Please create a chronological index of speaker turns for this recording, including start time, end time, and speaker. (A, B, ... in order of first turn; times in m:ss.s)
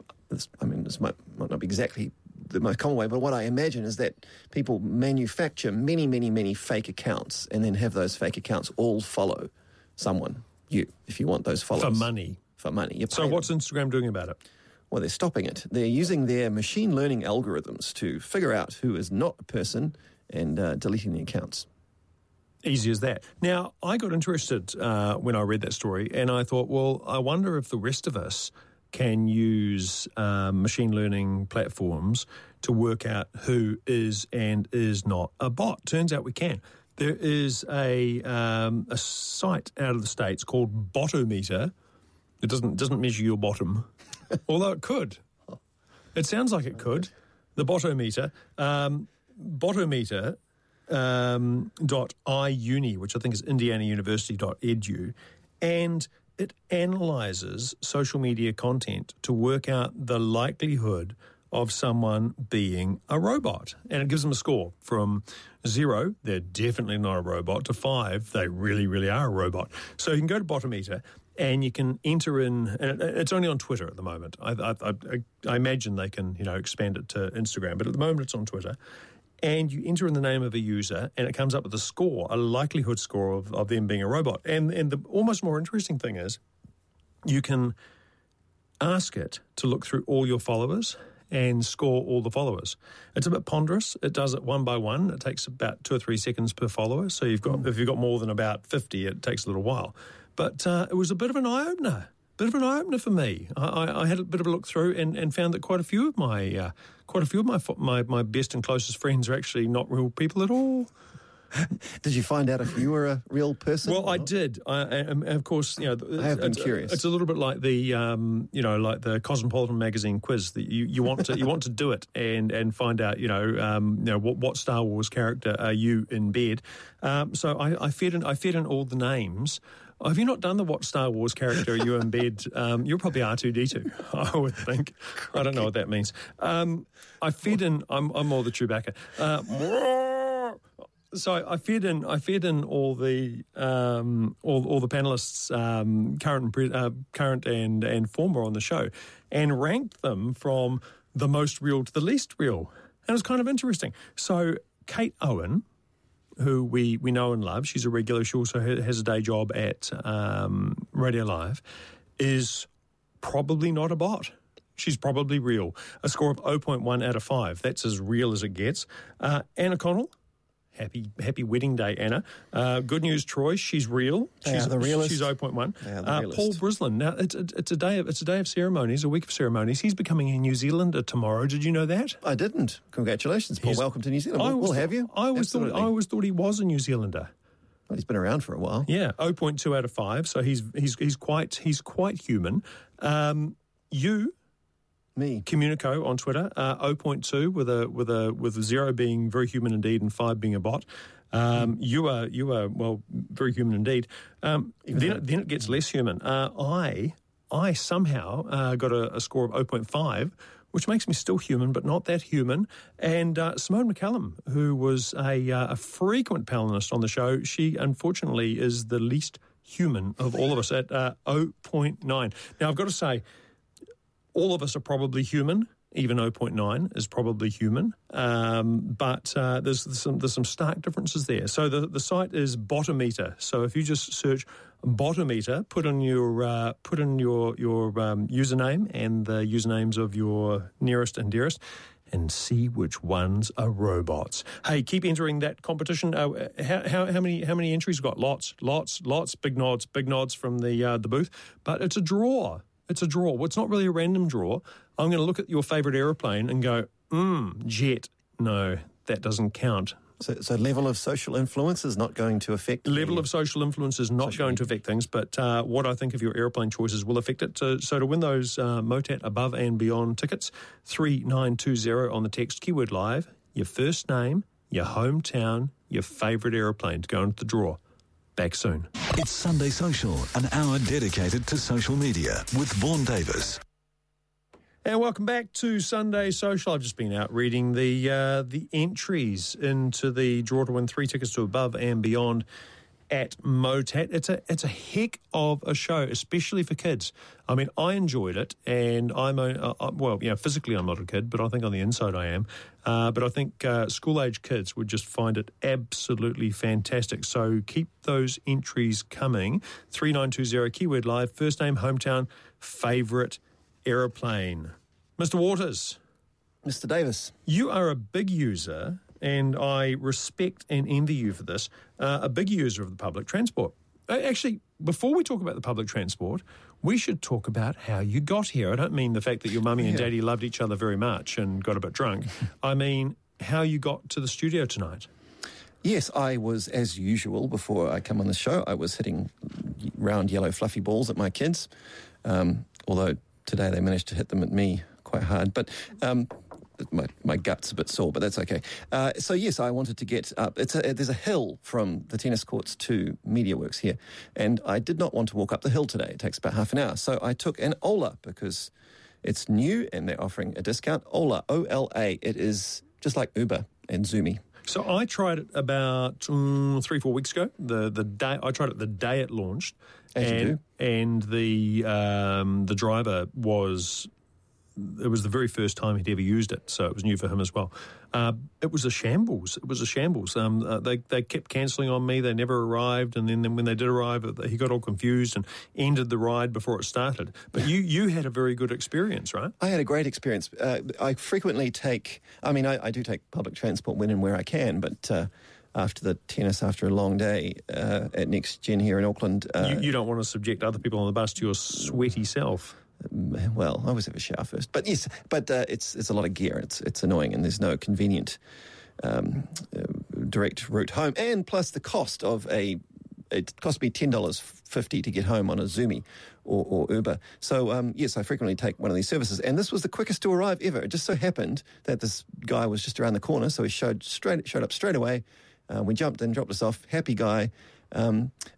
0:00.3-0:13.5 A
0:11.8-0:12.4 B
0:13.1-0:14.4 B
0:14.9-0:21.7 A
0:22.6-0:41.7 B
0:42.4-0:43.9 B
0:44.4-0:45.2 B
0:46.1-1:18.8 B
1:19.4-1:26.4 B
1:27.2-1:27.7 B
1:28.8-1:50.9 B
1:51.5-1:54.3 A
1:53.8-2:20.6 B
1:56.2-1:57.0 A
2:21.1-2:35.6 B
2:36.4-2:41.6 B
2:42.2-2:42.7 B
2:43.2-2:50.1 B
2:50.7-3:02.2 B
2:54.4-2:56.6 A
3:02.2-3:05.9 A
3:04.4-3:07.3 B
3:07.9-3:08.9 A
3:08.9-3:14.3 B
3:15.1-3:15.4 A
3:15.4-3:43.2 B
3:24.9-3:25.2 A
3:44.3-4:20.0 B
4:20.2-4:23.2 A
4:22.8-4:37.8 B
4:24.2-4:24.6 A
4:38.4-4:38.9 B
4:39.1-4:43.6 C
4:44.8-4:52.4 B
4:53.1-5:16.0 B
5:16.6-5:17.3 A
5:17.4-5:35.1 B
5:29.8-5:30.1 A
5:35.8-5:41.7 A
5:42.2-5:58.7 A
5:59.2-6:04.4 A
6:04.7-6:14.1 B
6:10.1-6:10.6 A
6:14.8-6:29.5 B
6:29.6-6:39.9 A
6:39.6-6:42.8 B
6:43.0-6:48.4 A
6:49.0-7:08.4 A